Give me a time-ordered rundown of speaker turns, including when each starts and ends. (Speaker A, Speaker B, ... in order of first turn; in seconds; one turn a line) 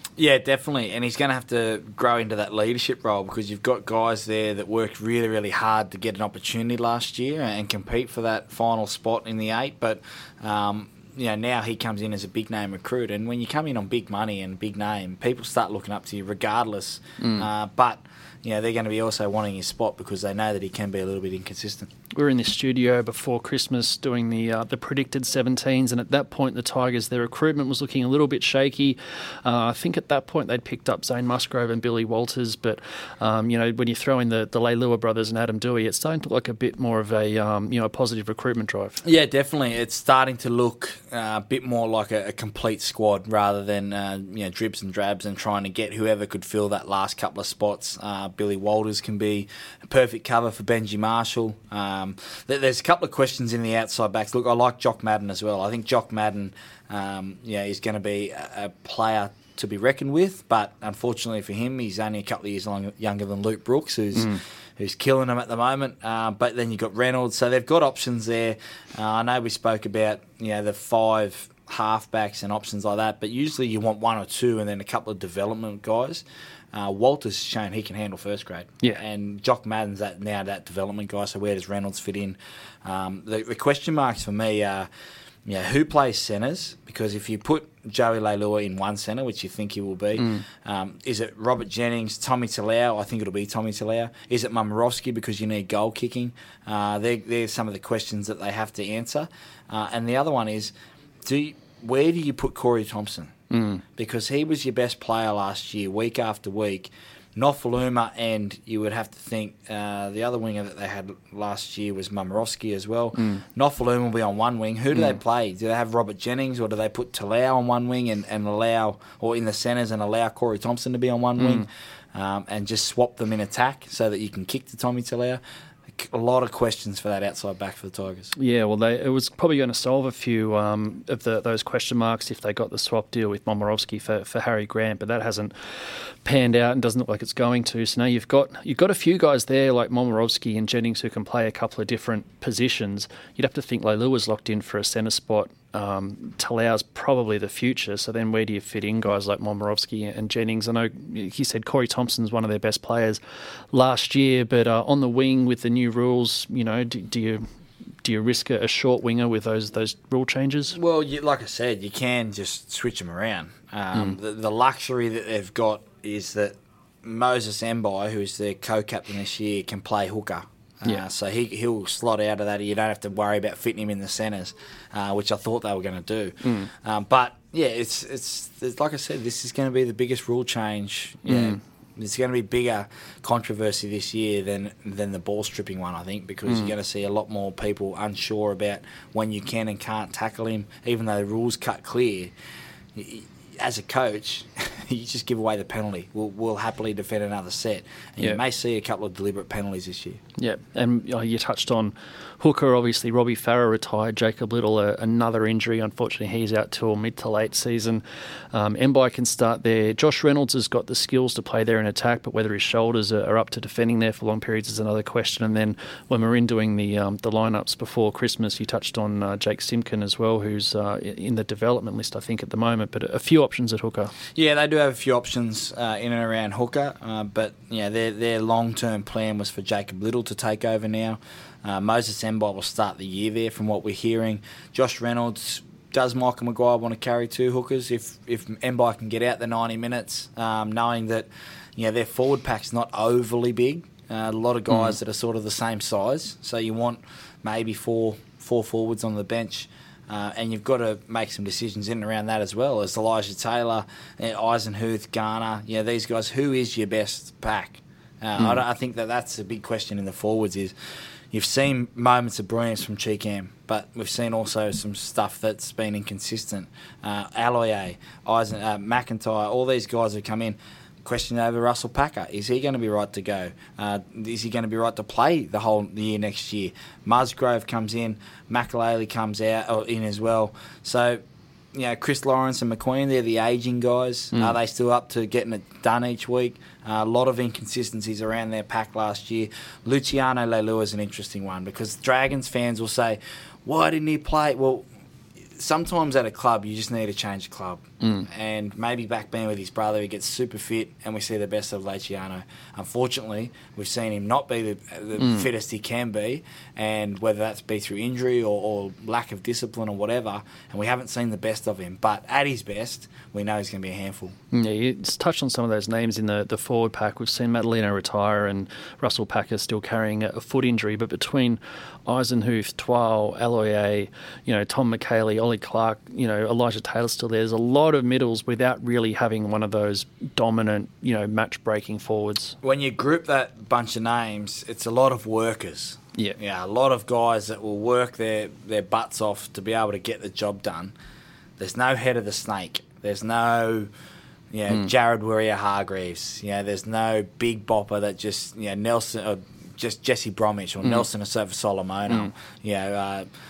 Speaker A: 0.2-21.9
Speaker B: 17.2-17.5
Speaker B: 22.2-39.0
Speaker A: 39.0-84.9
Speaker A: 85.5-100.7
Speaker B: 90.2-90.4
Speaker A: 101.2-103.3
Speaker B: 103.5-103.8
Speaker A: 104.0-125.4
Speaker B: 113.2-113.4
Speaker B: 121.4-121.7
Speaker A: 125.9-128.3
Speaker B: 128.3-153.2
Speaker B: 153.7-157.4
Speaker B: 158.0-160.8
Speaker A: 160.7-192.3
Speaker B: 176.4-176.7
Speaker B: 181.3-181.6
Speaker B: 186.5-186.7
Speaker A: 192.9-200.2
Speaker B: 200.4-224.1
Speaker A: 224.3-260.7
Speaker B: 244.7-244.9
Speaker A: 261.3-281.2
Speaker A: 281.7-294.9
Speaker A: 295.6-314.4
Speaker B: 298.0-298.3
Speaker B: 305.2-305.5
Speaker B: 314.5-332.6
Speaker A: 332.6-340.9
Speaker A: 341.6-343.9
Speaker A: 344.5-353.3